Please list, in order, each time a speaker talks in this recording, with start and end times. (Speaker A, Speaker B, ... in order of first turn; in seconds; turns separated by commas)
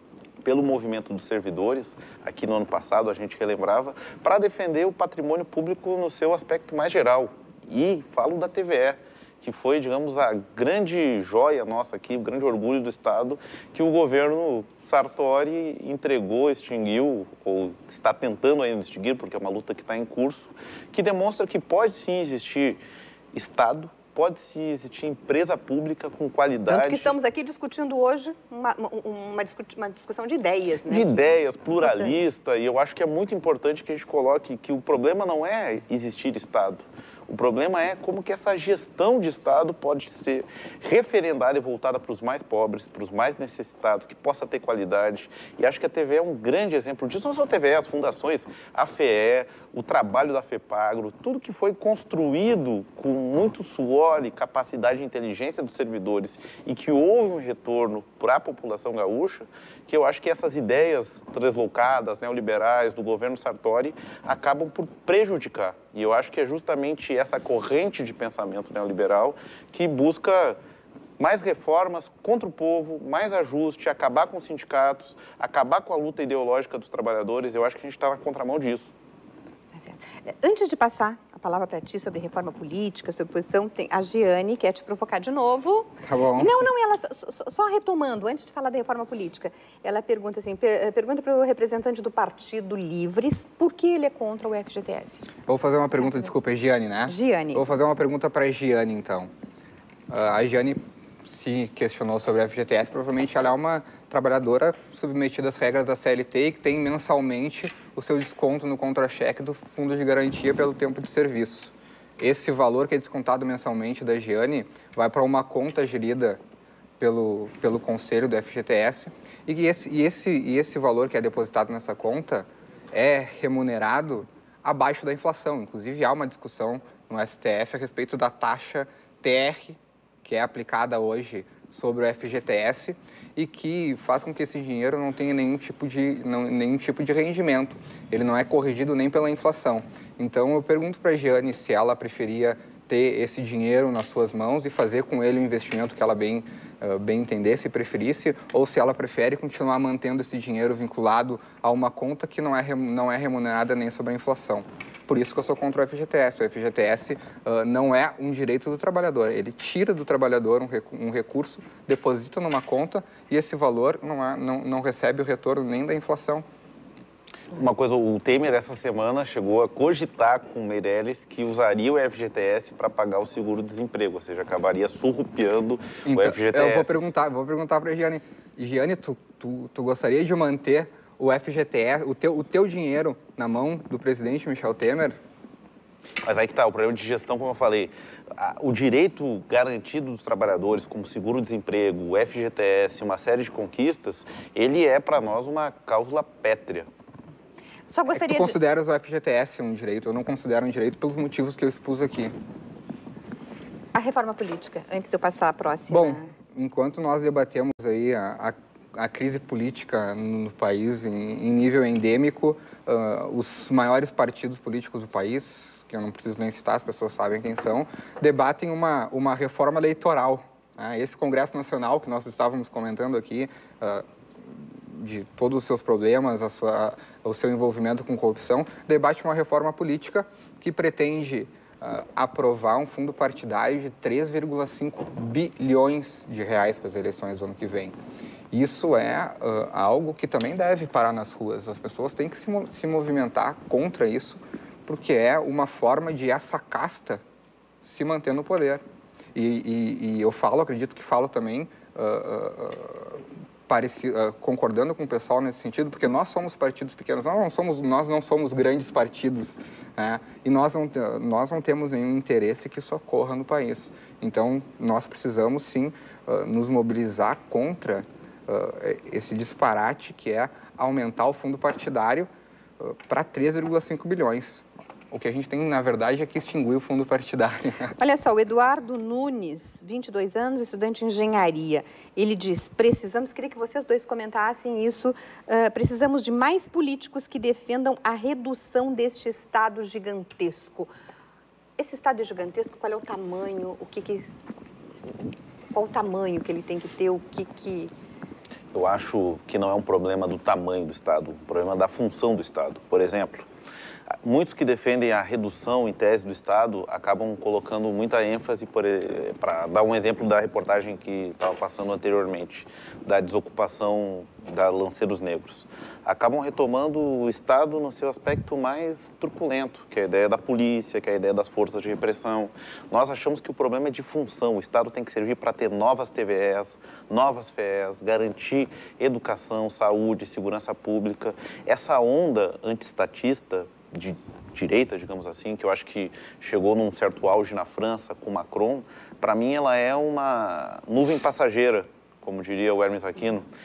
Speaker A: 0.4-22.8, Speaker A: 23.3-27.1, Speaker B: 26.7-31.2, Speaker A: 30.9-70.6, Speaker B: 31.8-32.1, Speaker A: 71.2-78.9, Speaker B: 79.8-95.2, Speaker C: 86.0-86.6, Speaker C: 95.5-99.3, Speaker B: 97.1-97.6, Speaker C: 100.1-116.4, Speaker C: 117.0-166.4, Speaker A: 167.5-177.1, Speaker C: 176.0-185.2, Speaker A: 186.2-196.9, Speaker B: 197.9-198.5, Speaker C: 198.1-202.3, Speaker B: 203.9-206.3, Speaker C: 205.9-237.9, Speaker C: 238.5-247.2, Speaker C: 247.8-248.8, Speaker C: 249.3-277.9, Speaker B: 278.0-290.9, Speaker B: 291.8-294.4, Speaker B: 295.7-297.9, Speaker A: 298.7-303.5, Speaker A: 304.1-343.4